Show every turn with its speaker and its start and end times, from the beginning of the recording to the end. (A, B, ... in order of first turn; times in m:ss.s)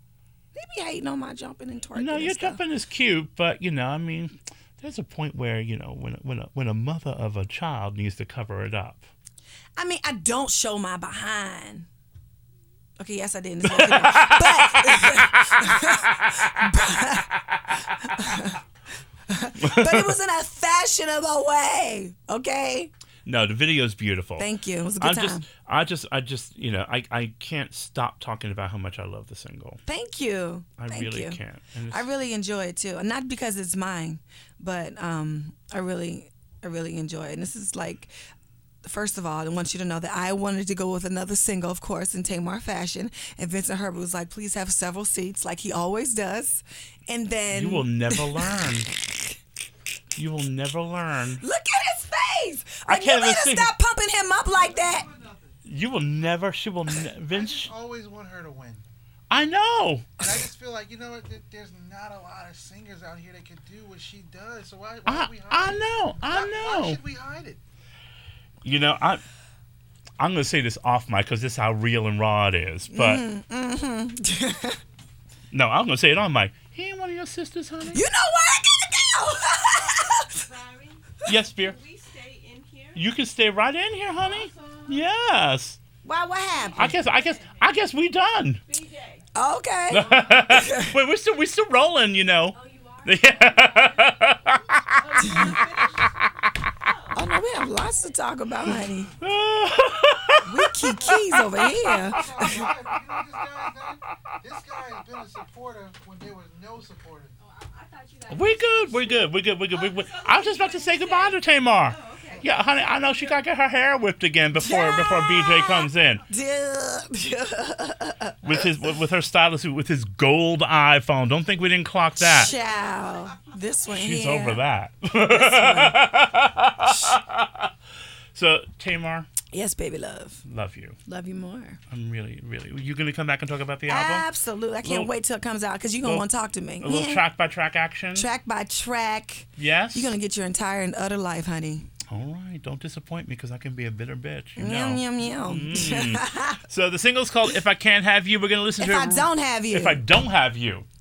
0:00.5-0:02.6 A
0:01.9-0:09.1 B
0:09.8-0:11.9 A
0:13.0-0:17.3 A
0:13.6-0:15.8 B
0:17.8-0:18.6 A
0:19.3-0:22.9 A
0:19.6-0:20.1 B
0:23.2-0:24.5 B
0:24.4-0:25.4 A
0:25.0-0:29.8 B
0:29.8-0:31.4 A
0:30.8-0:32.1 B
0:31.9-0:38.1 A
0:38.8-0:49.2 A
0:47.5-0:48.9 B
0:50.2-0:51.4 B
0:51.4-0:55.1 A
0:52.9-0:53.7 B
0:54.6-0:55.6 C
0:55.6-0:57.7 B
0:57.3-0:58.8 C
0:59.3-1:00.2 B
1:00.2-1:07.6 C
1:05.0-1:07.0 B
1:08.6-1:09.2 B
1:10.2-1:13.2 B
1:12.9-1:14.8 A
1:15.5-1:18.0 B
1:17.9-1:20.4 A
1:20.3-1:23.0 D
1:21.2-1:21.8 B
1:22.9-1:25.8 B
1:24.2-1:25.1 D
1:26.0-1:27.0 A
1:26.5-1:27.6 D
1:26.8-1:28.6 B
1:28.7-1:29.3 D
1:29.3-1:30.9 A
1:29.9-1:36.1 B
1:32.5-1:36.1 D
1:36.8-1:38.2 D
1:37.1-1:39.1 A
1:39.2-1:42.8 B
1:40.4-1:42.6 A
1:42.0-1:47.3 C
1:47.4-1:53.4 D
1:48.3-1:56.2 B
1:54.6-1:58.7 A
1:58.4-2:02.5 B
2:02.2-2:04.6 A
2:03.9-2:07.7 B
2:05.3-2:06.0 A
2:08.3-2:09.3 B
2:09.5-2:10.4 A
2:10.4-2:11.0 B
2:11.0-2:11.8 A
2:11.9-2:14.2 B
2:13.9-2:17.2 A
2:14.8-2:15.1 B
2:16.8-2:18.3 B
2:18.1-2:21.9 A
2:19.6-2:20.1 B
2:22.1-2:30.8 B
2:24.6-2:26.6 A
2:28.8-2:30.0 A